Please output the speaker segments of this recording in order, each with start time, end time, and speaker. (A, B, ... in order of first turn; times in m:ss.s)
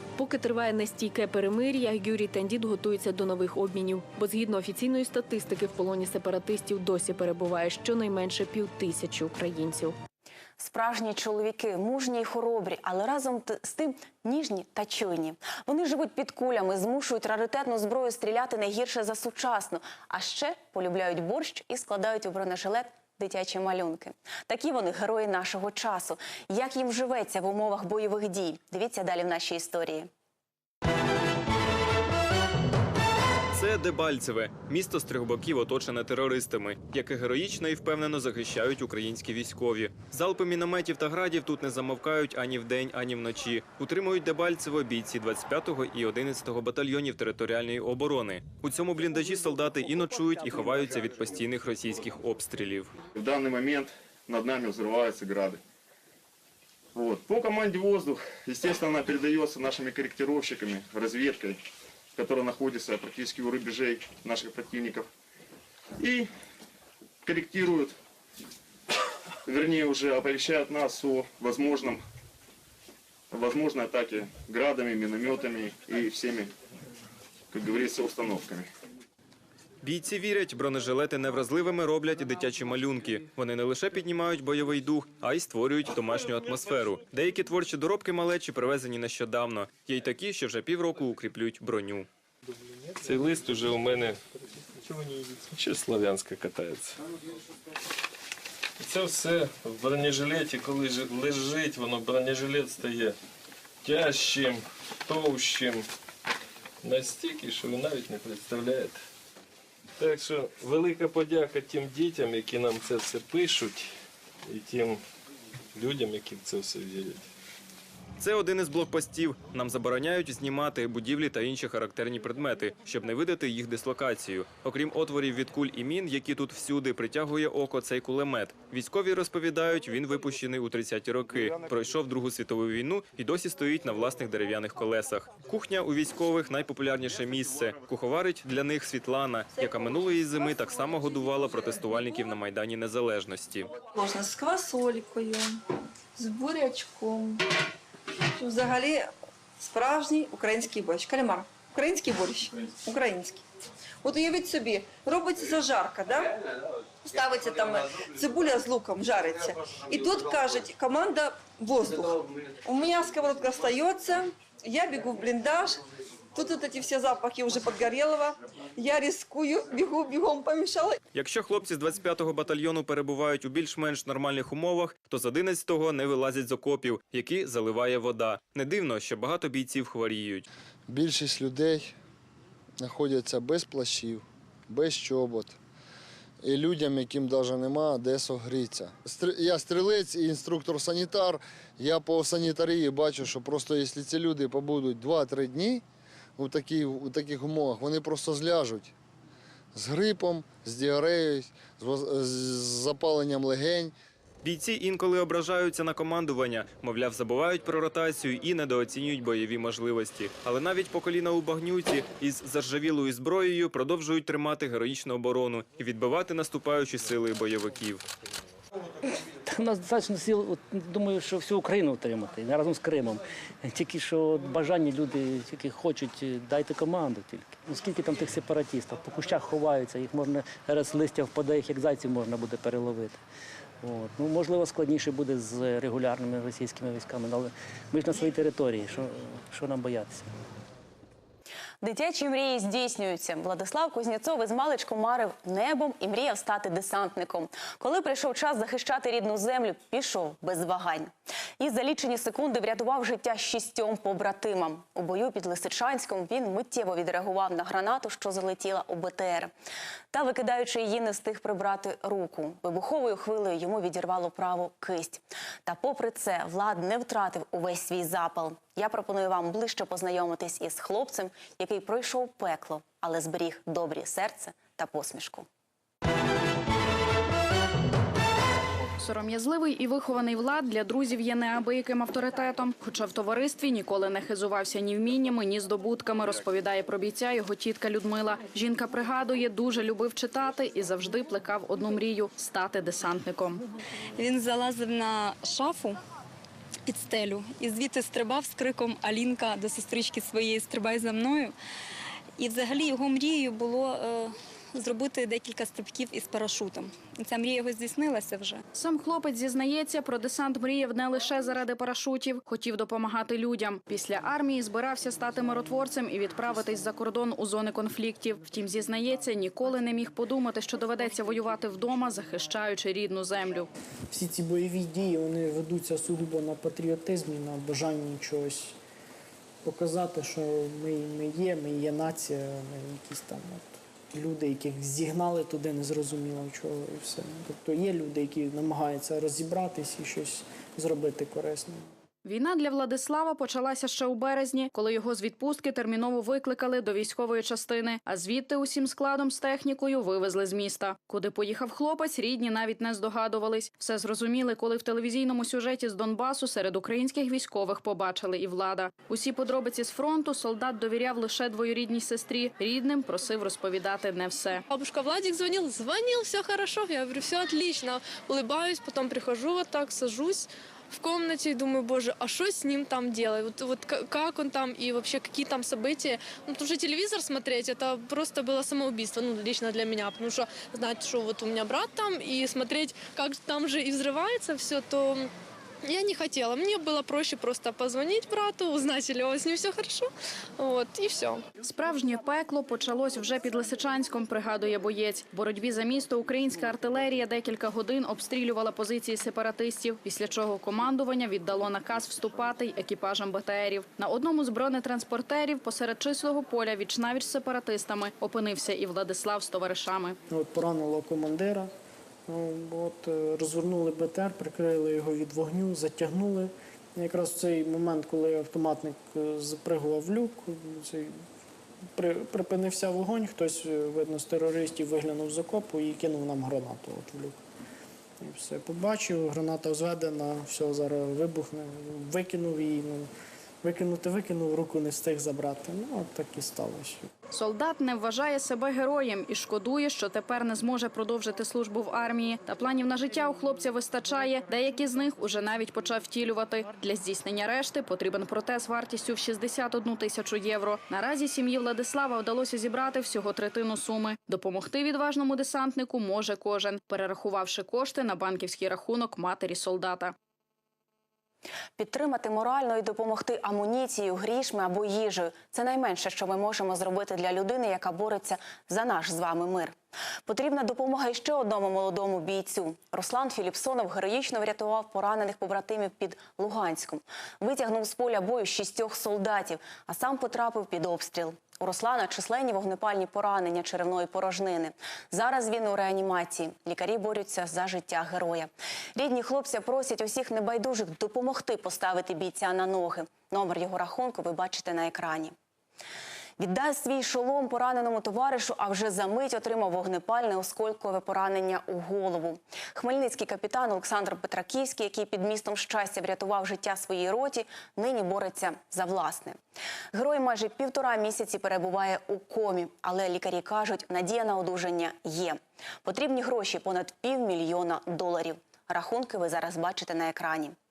0:00.2-0:10.0 A
0:10.6-0:30.1 B
0:33.5-0:52.9 C
0:53.1-0:55.6 D
0:56.9-1:01.6 D
1:02.1-1:05.1 D
1:06.0-1:06.3 D
1:07.2-1:07.9 D
1:09.4-1:12.0 D
1:13.3-1:16.5 D
1:17.5-1:18.7 D
1:19.8-1:32.1 C
1:33.0-1:34.2 E
1:34.8-1:37.0 E
1:38.8-1:43.1 E
1:43.8-1:45.8 E
1:46.8-1:49.0 E
1:50.0-1:53.9 E
1:54.5-1:55.0 E
1:55.7-1:57.2 E
1:58.2-2:23.7 C
2:23.9-2:25.6 F
2:26.2-2:27.4 F
2:28.4-2:29.1 F
2:29.6-2:33.4 F
2:34.0-2:36.4 F
2:37.0-2:45.8 F
2:46.3-2:51.0 F
2:51.1-3:00.5 C
3:00.9-3:01.9 G
3:02.8-3:05.6 G
3:06.4-3:15.8 G
3:16.4-3:18.9 G
3:19.7-3:23.9 G
3:24.4-3:38.0 C
3:39.4-3:53.2 H
3:53.8-4:00.3 H
4:01.8-4:19.5 B
4:20.1-4:35.5 B
4:39.0-4:53.6 I
4:54.1-4:56.0 J
4:56.8-5:01.5 J
5:02.4-5:08.6 J
5:08.7-5:23.7 I
5:24.1-5:28.8 K
5:29.6-5:41.9 K
5:42.2-6:04.6 I
6:04.7-6:25.3 L
6:25.8-6:31.4 L
6:31.6-6:50.2 I
6:50.3-6:51.7 K
6:52.3-7:01.2 K
7:02.0-7:07.4 K
7:08.2-7:13.1 K
7:13.6-7:17.1 K
7:17.3-7:40.1 I
7:41.8-8:15.3 B
8:16.4-8:29.4 B
8:29.9-8:40.6 B